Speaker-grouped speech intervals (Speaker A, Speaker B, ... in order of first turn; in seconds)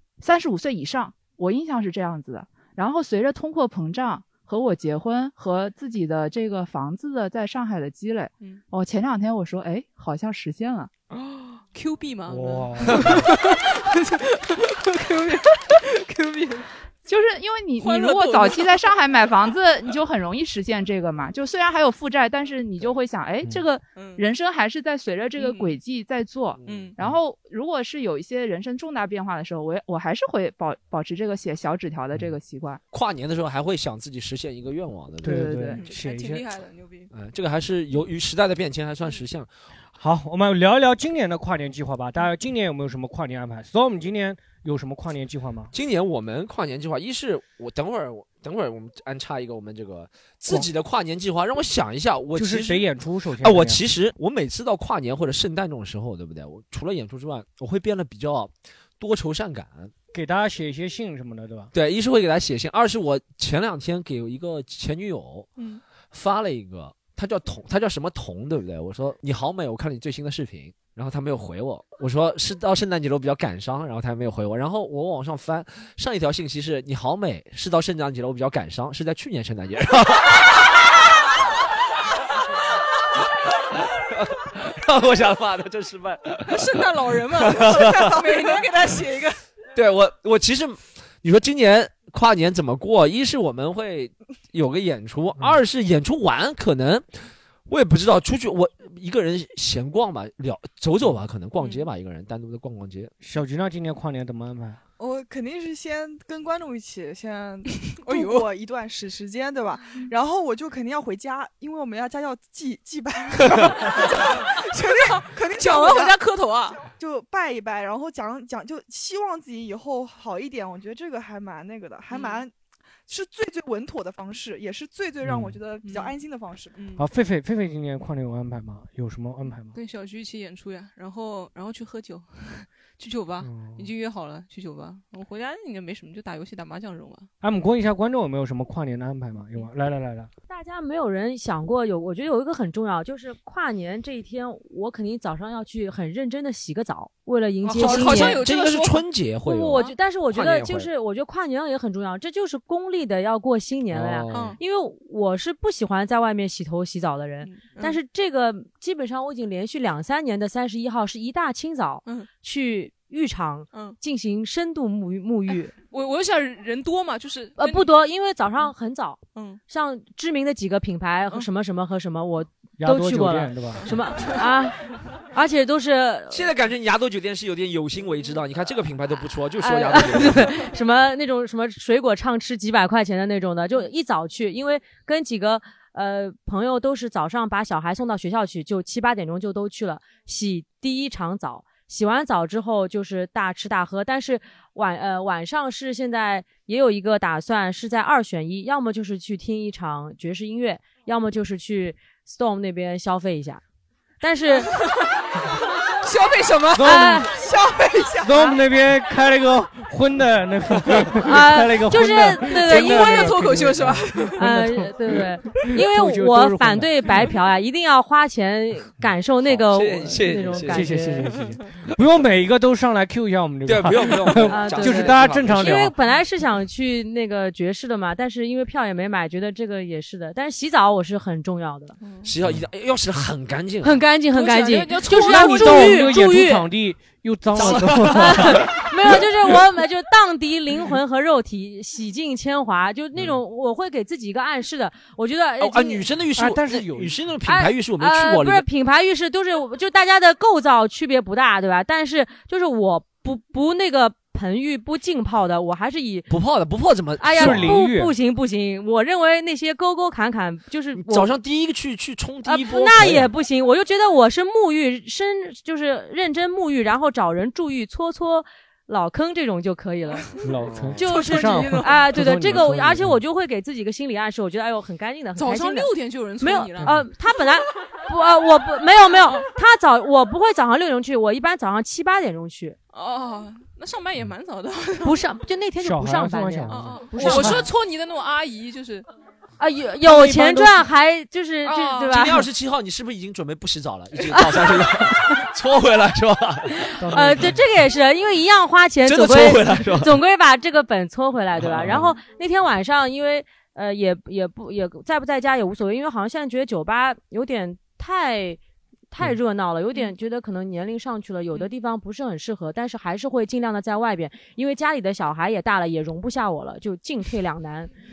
Speaker A: 0.2-10.9, 17.1-32.8, 35.2-35.9
Speaker B: 11.1-16.7, 17.8-18.9, 23.9-24.2, 25.4-25.8, 26.6-26.9, 35.7-37.1, 65.6-65.8, 86.5-89.4, 101.6-101.9, 107.8-108.5, 113.6-116.8, 122.1-122.4, 125.8-126.1, 126.7-127.0, 129.7-137.3, 147.6-149.1, 154.3-154.6, 157.4-158.0, 162.0-162.3, 163.7-164.0, 165.5-167.9, 169.3-169.6, 174.2-174.4, 206.0-207.2, 212.6-214.4, 221.3-221.6, 232.0-232.3, 234.3-236.2, 271.0-272.1, 275.3-277.5, 282.9-285.2, 286.7-289.1, 291.6-292.2
Speaker C: 12.3-13.3, 35.2-36.5, 40.0-45.7, 52.3-53.8, 60.1-61.7, 103.2-104.8, 125.2-125.6, 127.0-129.8, 133.4-133.9, 137.4-140.3, 172.8-173.9, 206.7-207.3, 208.2-214.9, 215.6-217.1, 220.6-225.9, 235.1-238.7, 246.4-247.3, 257.3-258.1, 270.4-273.2, 276.8-277.1, 285.8-287.6, 290.0-290.8, 297.0-297.6
Speaker D: 26.6-26.9, 32.9-35.5, 37.1-39.5, 45.7-52.9, 53.4-59.9, 61.7-65.5, 66.1-80.7, 84.0-88.2, 89.7-97.0, 97.7-103.1, 147.7-150.9, 153.9-154.6, 176.3-180.6, 219.4-221.0, 223.7-225.9, 232.2-234.0, 237.5-239.3, 245.6-248.7, 256.3-257.8, 260.9-263.3, 270.6-271.1, 292.1-296.9, 299.0-300.2, 301.6-302.1
Speaker E: 105.0-116.2, 116.8-122.5, 123.1-126.7, 207.3-208.3
Speaker F: 140.5-148.4, 149.4-165.7, 167.6-174.8, 175.3-176.5, 179.6-203.6, 204.2-204.7, 206.8-207.4, 208.3-208.6, 211.2-213.5, 214.3-221.3, 224.5-231.9, 233.8-236.7, 237.6-246.1, 247.4-256.3, 257.2-261.3, 262.4-270.3, 271.0-282.8, 285.0-287.7, 289.6-292.5, 294.3-294.8, 296.8-308.6, 309.1-317.9